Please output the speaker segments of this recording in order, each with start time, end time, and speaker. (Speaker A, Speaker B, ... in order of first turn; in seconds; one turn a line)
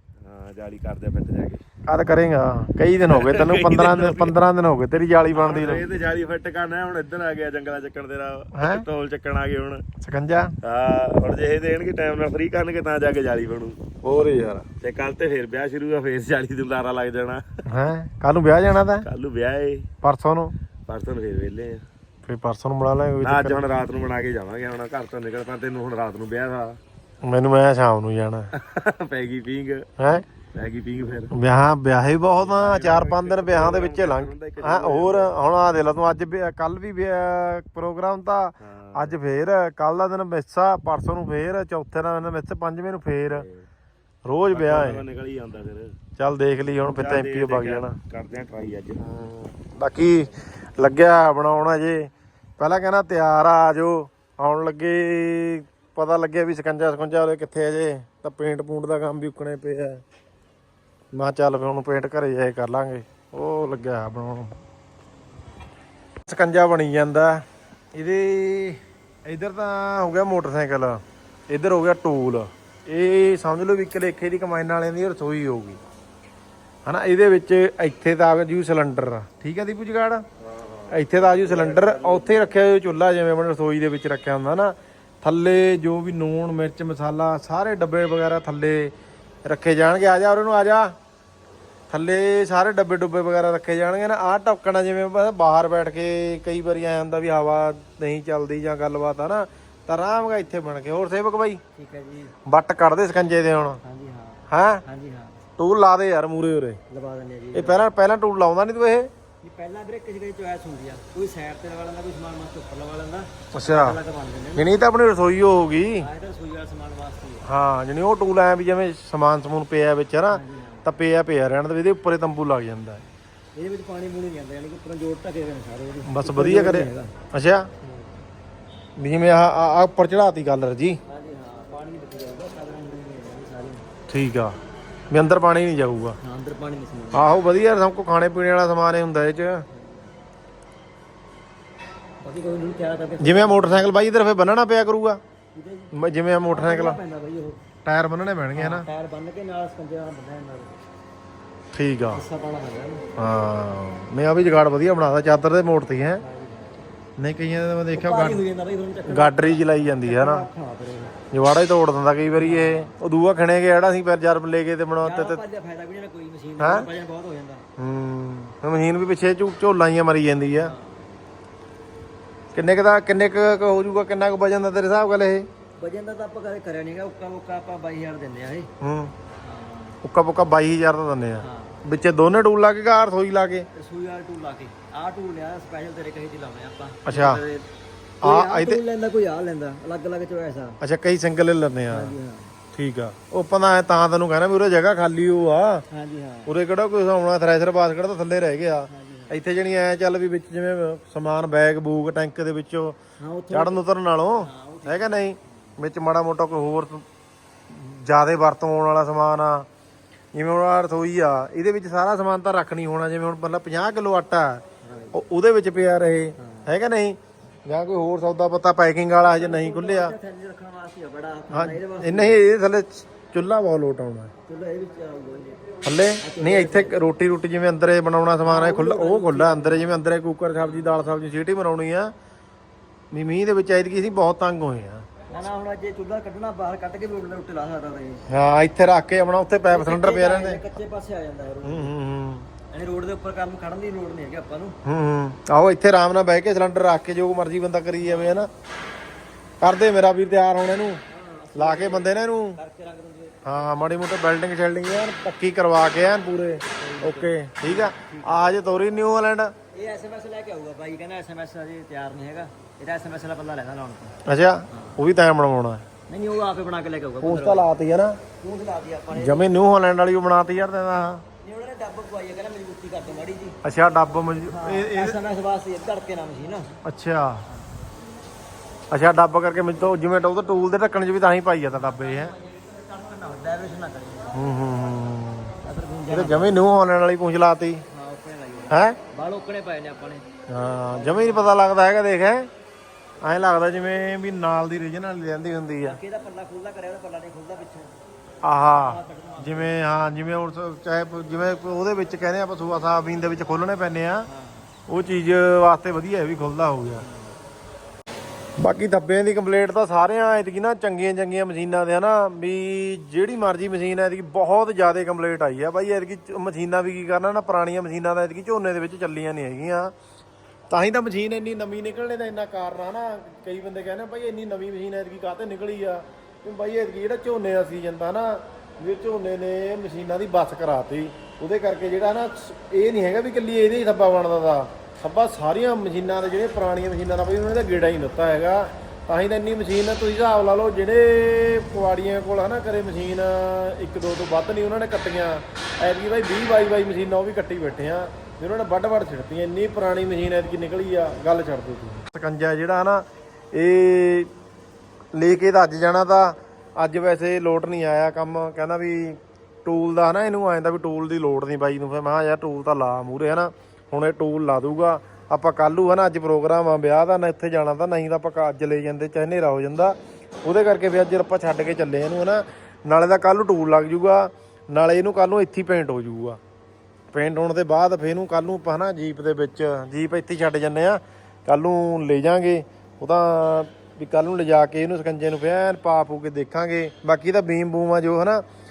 Speaker A: 0.2-1.6
Speaker B: 1.9-5.8
Speaker A: 3.1-4.4
Speaker A: 5.3-9.8
Speaker B: 8.6-8.8
Speaker B: 10.0-10.5
Speaker A: 10.6-17.6
Speaker B: 14.1-14.4
Speaker B: 17.7-19.1
Speaker A: 19.0-19.9
Speaker B: 20.0-20.5
Speaker A: 20.9-21.8
Speaker B: 22.3-23.6
Speaker A: 23.2-26.8
Speaker B: 27.2-28.5
Speaker A: 28.5-29.9
Speaker B: 30.0-30.3
Speaker A: 30.5-31.3
Speaker B: 31.3-43.5
Speaker A: 32.4-35.3
Speaker A: 38.6-39.2
Speaker A: 43.3-43.6
Speaker B: 44.3-45.0
Speaker A: 44.5-45.9
Speaker B: 46.2-48.0
Speaker A: 46.9-49.3
Speaker B: 49.6-60.0
Speaker B: 61.1-64.6
Speaker B: 66.3-67.4
Speaker B: 68.0-75.8
Speaker B: 76.9-80.2
Speaker A: 80.4-82.5
Speaker B: 80.9-88.9
Speaker B: 89.5-90.9
Speaker B: 91.9-101.6
Speaker C: 101.8-102.3
Speaker B: 102.5-103.8
Speaker C: 103.8-105.4
Speaker B: 104.5-104.8
Speaker B: 105.6-106.8
Speaker C: 106.9-107.8
Speaker B: 107.5-109.1
Speaker C: 109.4-114.7
Speaker B: 113.5-114.0
Speaker B: 114.5-116.1
Speaker C: 116.0-117.5
Speaker B: 117.5-123.0
Speaker C: 120.3-120.9
Speaker C: 123.6-127.1
Speaker B: 126.1-127.7
Speaker B: 129.0-131.0
Speaker C: 131.1-133.9
Speaker B: 134.1-134.6
Speaker B: 135.1-136.2
Speaker C: 136.2-137.3
Speaker B: 137.1-139.6
Speaker C: 139.7-140.1
Speaker C: 142.2-143.9
Speaker B: 143.2-145.2
Speaker C: 145.6-147.6
Speaker B: 145.9-147.0
Speaker B: 147.8-148.9
Speaker C: 148.6-150.8
Speaker B: 151.7-152.2
Speaker C: 152.1-153.1
Speaker B: 153.2-156.2
Speaker C: 156.2-156.8
Speaker B: 157.2-158.4
Speaker C: 157.9-161.2
Speaker B: 159.1-160.4
Speaker B: 161.3-165.4
Speaker C: 162.3-162.9
Speaker C: 165.0-167.7
Speaker B: 166.6-166.9
Speaker B: 167.8-170.7
Speaker C: 170.6-171.2
Speaker B: 172.5-175.5
Speaker C: 175.8-178.7
Speaker B: 178.8-179.1
Speaker C: 179.4-180.0
Speaker B: 180.0-183.7
Speaker C: 181.4-181.8
Speaker C: 183.7-187.7
Speaker B: 187.1-187.4
Speaker B: 188.2-188.8
Speaker C: 188.2-190.8
Speaker B: 190.8-192.1
Speaker C: 191.9-192.5
Speaker B: 192.7-195.8
Speaker C: 195.9-196.5
Speaker B: 196.5-203.0
Speaker C: 198.9-199.4
Speaker C: 203.2-203.8
Speaker B: 203.5-207.0
Speaker C: 204.4-205.4
Speaker B: 207.7-209.7
Speaker B: 210.3-214.6
Speaker C: 214.8-215.2
Speaker B: 215.1-220.1
Speaker C: 216.4-216.7
Speaker C: 219.2-222.4
Speaker B: 221.5-224.3
Speaker C: 224.5-227.0
Speaker B: 225.8-232.1
Speaker C: 228.4-230.0
Speaker C: 230.6-231.0
Speaker B: 233.1-235.1
Speaker C: 235.3-238.2
Speaker B: 238.3-240.6
Speaker C: 239.7-241.9
Speaker B: 241.7-242.5
Speaker C: 242.7-244.8
Speaker B: 244.9-248.5
Speaker C: 248.0-248.5
Speaker B: 249.6-251.0
Speaker C: 251.1-253.4
Speaker B: 251.6-252.6
Speaker B: 253.4-259.5
Speaker C: 256.8-258.7
Speaker C: 259.8-264.2
Speaker B: 264.3-265.8
Speaker C: 264.7-265.0
Speaker C: 266.1-267.7
Speaker B: 267.2-268.2
Speaker C: 268.4-269.5
Speaker B: 269.1-271.2
Speaker C: 271.4-273.6
Speaker B: 273.6-275.2
Speaker C: 274.4-276.8
Speaker B: 276.8-277.4
Speaker B: 278.9-282.3
Speaker C: 281.7-284.4
Speaker B: 284.4-285.5
Speaker C: 285.6-286.6
Speaker B: 286.1-287.8
Speaker C: 287.9-290.3
Speaker B: 288.7-289.0
Speaker B: 290.5-292.5
Speaker C: 290.8-291.6
Speaker B: 293.2-296.0
Speaker C: 295.8-298.0
Speaker B: 298.4-304.3
Speaker C: 298.7-299.8
Speaker C: 304.3-304.7
Speaker B: 304.9-307.0
Speaker C: 307.0-307.4
Speaker B: 308.6-319.9
Speaker B: 320.7-354.3
Speaker B: 355.1-376.4
Speaker B: 377.1-388.4